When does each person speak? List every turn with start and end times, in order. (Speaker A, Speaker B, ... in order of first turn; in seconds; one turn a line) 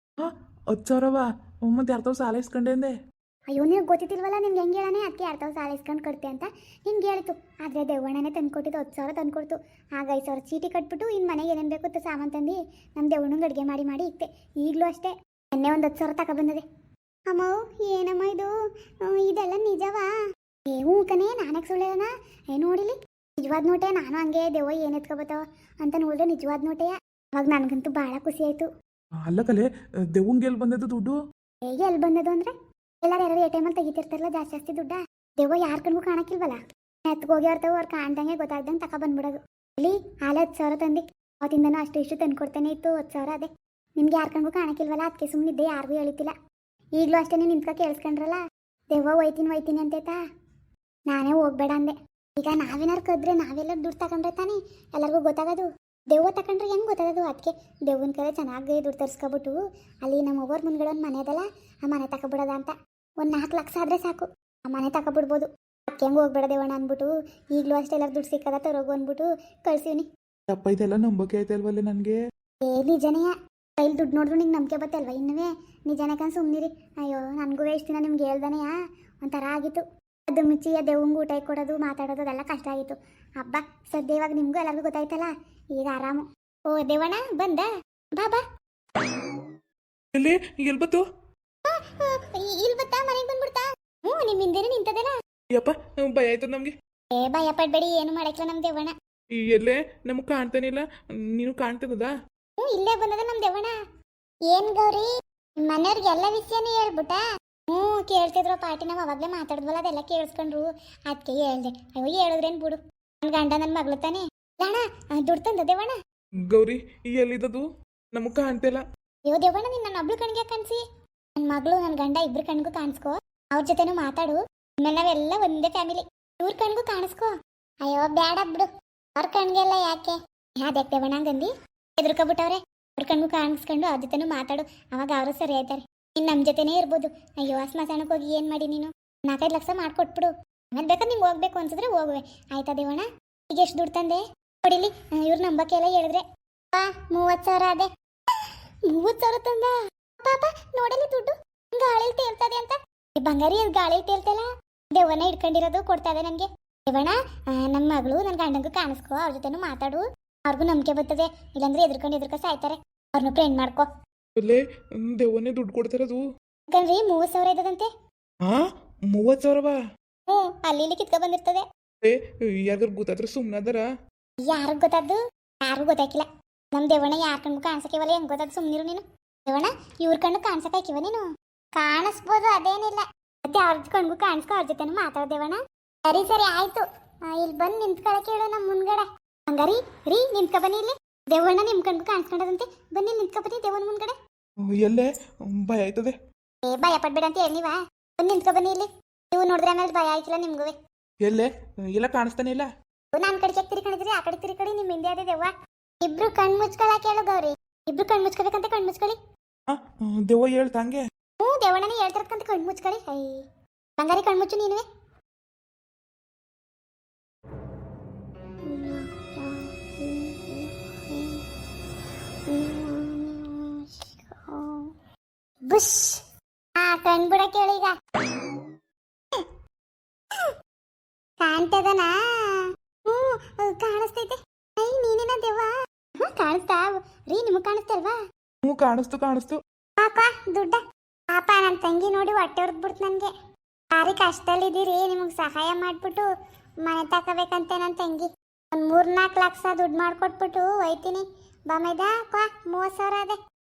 Speaker A: 0.2-2.9
Speaker B: 3.5-16.6
Speaker B: 17.3-18.5
Speaker B: 19.0-20.1
Speaker B: 20.7-28.7
Speaker A: 29.3-31.2
Speaker B: 31.7-46.3
Speaker B: 47.0-48.4
Speaker B: 48.9-50.2
Speaker B: 51.1-70.1
Speaker A: 70.5-72.2
Speaker B: 72.7-78.7
Speaker B: 79.2-88.4
Speaker A: 90.1-91.0
Speaker B: 91.7-95.1
Speaker A: 95.6-96.7
Speaker B: 97.1-98.9
Speaker A: 99.4-102.1
Speaker B: 102.6-103.8
Speaker B: 104.5-105.1
Speaker B: 105.6-116.0
Speaker A: 116.5-118.8
Speaker B: 119.3-120.8
Speaker B: 121.4-127.3
Speaker B: 127.8-163.9
Speaker A: 164.4-166.2
Speaker B: 166.7-167.9
Speaker A: 168.5-169.8
Speaker B: 170.3-171.7
Speaker A: 172.0-173.9
Speaker B: 174.4-194.2
Speaker A: 194.7-196.2
Speaker B: 196.7-200.8
Speaker A: 201.2-202.7
Speaker B: 203.1-205.5
Speaker B: 206.1-209.2
Speaker A: 209.7-211.0
Speaker B: 211.4-213.4
Speaker B: 214.0-214.8
Speaker B: 218.7-221.4
Speaker B: 222.5-225.0
Speaker B: 225.7-226.3
Speaker B: 226.8-228.8
Speaker B: 229.3-229.6
Speaker B: 231.4-238.2
Speaker A: 238.7-239.6
Speaker B: 240.0-240.8
Speaker B: 241.3-243.3
Speaker B: 243.9-246.3
Speaker B: 246.8-253.4